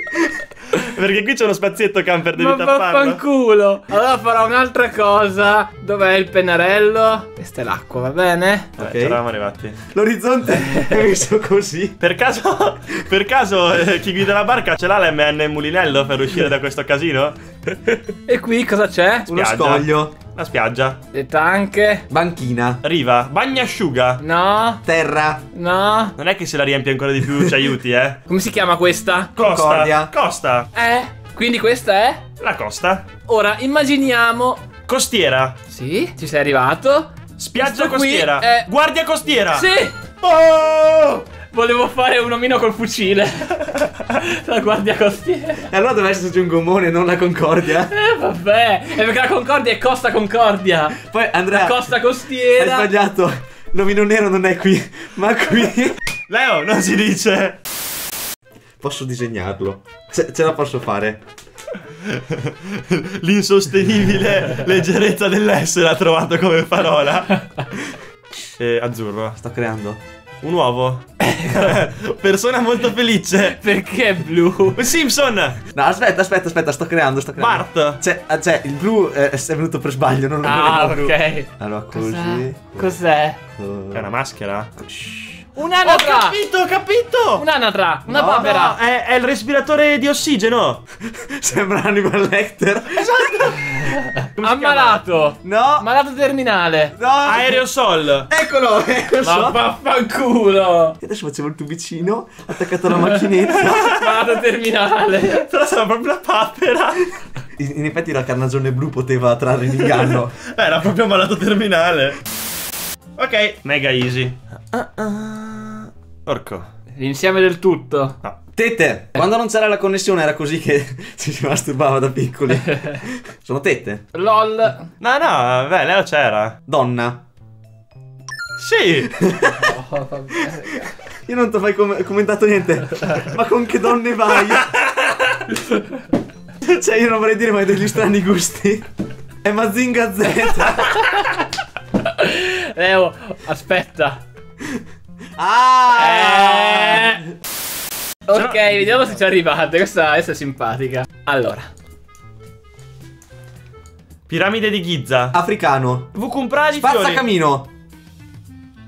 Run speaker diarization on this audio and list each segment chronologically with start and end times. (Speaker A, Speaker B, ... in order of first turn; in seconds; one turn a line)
Speaker A: 0.7-3.2
Speaker B: 2.3-8.8
Speaker A: 8.8-9.8
Speaker C: 8.8-9.2
Speaker C: 9.9-12.0
Speaker A: 12.0-17.4
Speaker B: 18.2-19.3
Speaker C: 19.3-20.1
Speaker A: 19.3-21.0
Speaker B: 21.1-22.0
Speaker C: 22.1-22.8
Speaker A: 22.8-24.2
Speaker B: 24.2-24.8
Speaker C: 24.8-25.4
Speaker B: 25.5-26.1
Speaker A: 26.2-28.2
Speaker B: 28.3-29.3
Speaker A: 29.4-30.7
Speaker C: 29.4-30.1
Speaker B: 30.7-32.2
Speaker A: 32.4-33.0
Speaker B: 33.2-34.6
Speaker A: 34.9-35.5
Speaker B: 35.7-38.7
Speaker A: 37.4-39.7
Speaker B: 39.5-45.7
Speaker C: 45.7-47.9
Speaker B: 47.9-52.9
Speaker C: 51.0-51.8
Speaker C: 52.5-56.0
Speaker A: 56.3-57.6
Speaker C: 58.8-61.2
Speaker A: 62.1-67.4
Speaker A: 68.6-69.4
Speaker C: 69.4-70.0
Speaker A: 70.4-73.6
Speaker B: 73.4-74.8
Speaker A: 74.7-75.6
Speaker C: 75.7-82.9
Speaker A: 77.4-78.0
Speaker B: 80.4-83.4
Speaker C: 83.6-84.1
Speaker A: 83.9-84.7
Speaker C: 84.8-85.4
Speaker B: 85.5-86.4
Speaker A: 85.8-87.4
Speaker B: 87.3-88.8
Speaker A: 88.1-90.8
Speaker C: 91.0-93.7
Speaker A: 93.0-95.0
Speaker B: 94.4-96.9
Speaker C: 95.4-95.8
Speaker C: 97.0-97.6
Speaker A: 97.2-98.3
Speaker C: 98.3-99.6
Speaker B: 99.2-101.0
Speaker C: 101.0-104.0
Speaker B: 103.5-105.5
Speaker A: 103.5-104.2
Speaker A: 105.3-107.1
Speaker C: 107.6-110.3
Speaker A: 109.8-112.2
Speaker A: 113.2-116.6
Speaker B: 117.0-118.2
Speaker C: 118.5-124.0
Speaker B: 124.1-124.9
Speaker A: 125.0-126.5
Speaker C: 126.7-127.2
Speaker A: 128.6-129.2
Speaker C: 129.2-129.8
Speaker B: 129.5-130.9
Speaker C: 131.2-134.8
Speaker A: 134.4-135.2
Speaker C: 136.6-138.8
Speaker C: 139.4-140.9
Speaker B: 140.8-141.4
Speaker B: 141.9-144.2
Speaker C: 145.4-147.2
Speaker B: 146.0-147.2
Speaker B: 148.3-151.7
Speaker A: 148.3-148.8
Speaker A: 154.3-155.3
Speaker C: 155.3-156.1
Speaker A: 156.1-157.2
Speaker C: 156.7-157.7